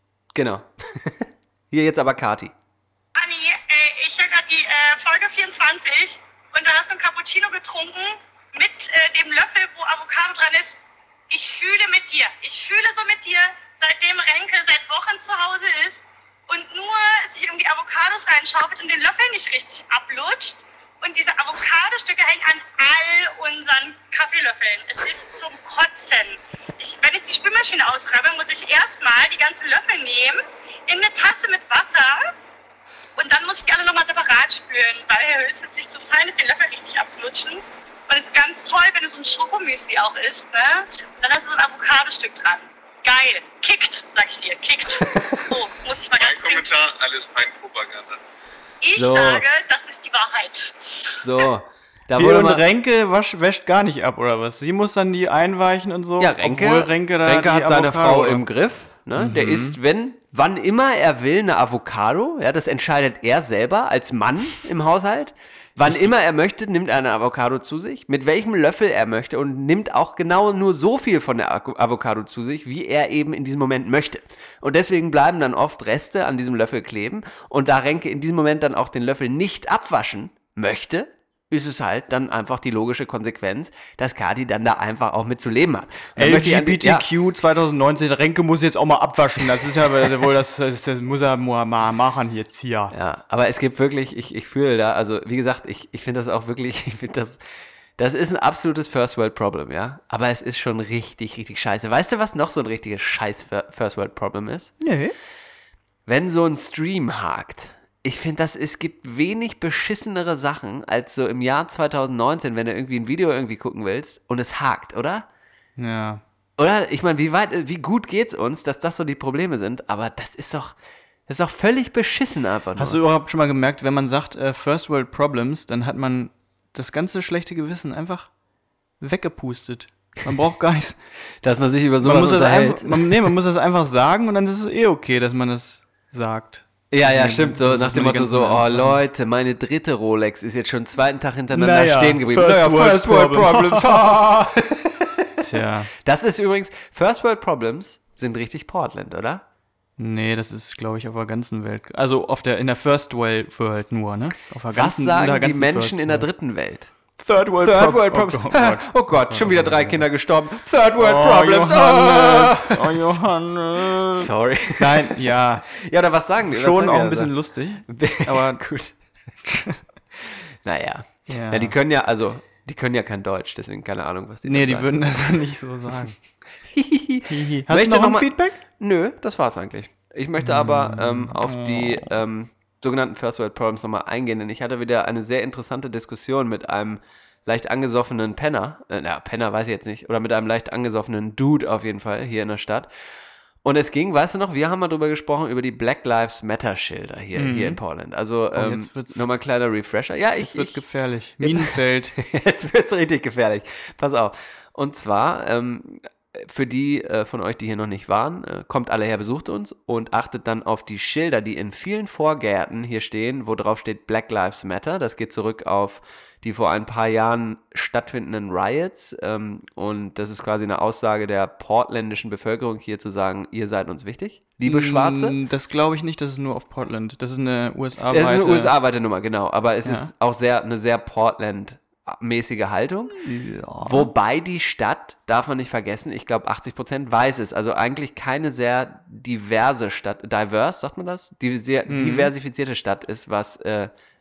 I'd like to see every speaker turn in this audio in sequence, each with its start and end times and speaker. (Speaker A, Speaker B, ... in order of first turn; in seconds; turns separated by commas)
Speaker A: 0.3-2.5, Speaker B: 3.1-32.2, Speaker B: 33.2-46.7, Speaker A: 44.9-45.5, Speaker C: 46.1-48.2, Speaker B: 48.8-50.8, Speaker A: 48.9-49.5, Speaker A: 51.2-52.6, Speaker D: 52.1-58.5, Speaker A: 56.2-87.1, Speaker D: 59.1-59.8, Speaker D: 65.8-66.1, Speaker D: 86.2-92.9, Speaker A: 92.9-97.4, Speaker A: 98.0-104.7, Speaker D: 104.8-105.2, Speaker A: 106.0-115.2, Speaker D: 115.8-116.2, Speaker A: 116.6-120.7, Speaker A: 121.3-123.0, Speaker D: 122.8-128.3, Speaker D: 129.0-131.0, Speaker A: 131.4-133.3, Speaker D: 132.0-139.0, Speaker A: 136.9-149.4, Speaker D: 141.5-144.3, Speaker D: 145.4-145.9, Speaker D: 150.0-156.3, Speaker A: 154.7-156.9, Speaker D: 157.2-160.1, Speaker A: 157.6-163.2, Speaker D: 160.9-165.7, Speaker A: 163.8-168.9, Speaker D: 166.4-168.6, Speaker D: 169.4-169.8, Speaker A: 170.2-175.4, Speaker D: 171.3-171.8, Speaker D: 174.4-176.2, Speaker A: 176.6-192.9, Speaker D: 177.3-178.6, Speaker D: 180.4-182.2, Speaker A: 193.6-200.8, Speaker D: 197.3-197.8, Speaker D: 198.5-199.3, Speaker D: 200.4-202.1, Speaker A: 201.4-225.4, Speaker D: 224.6-228.7, Speaker A: 228.1-233.2, Speaker D: 229.8-230.1, Speaker D: 233.1-234.1, Speaker A: 233.8-243.9, Speaker D: 241.9-242.3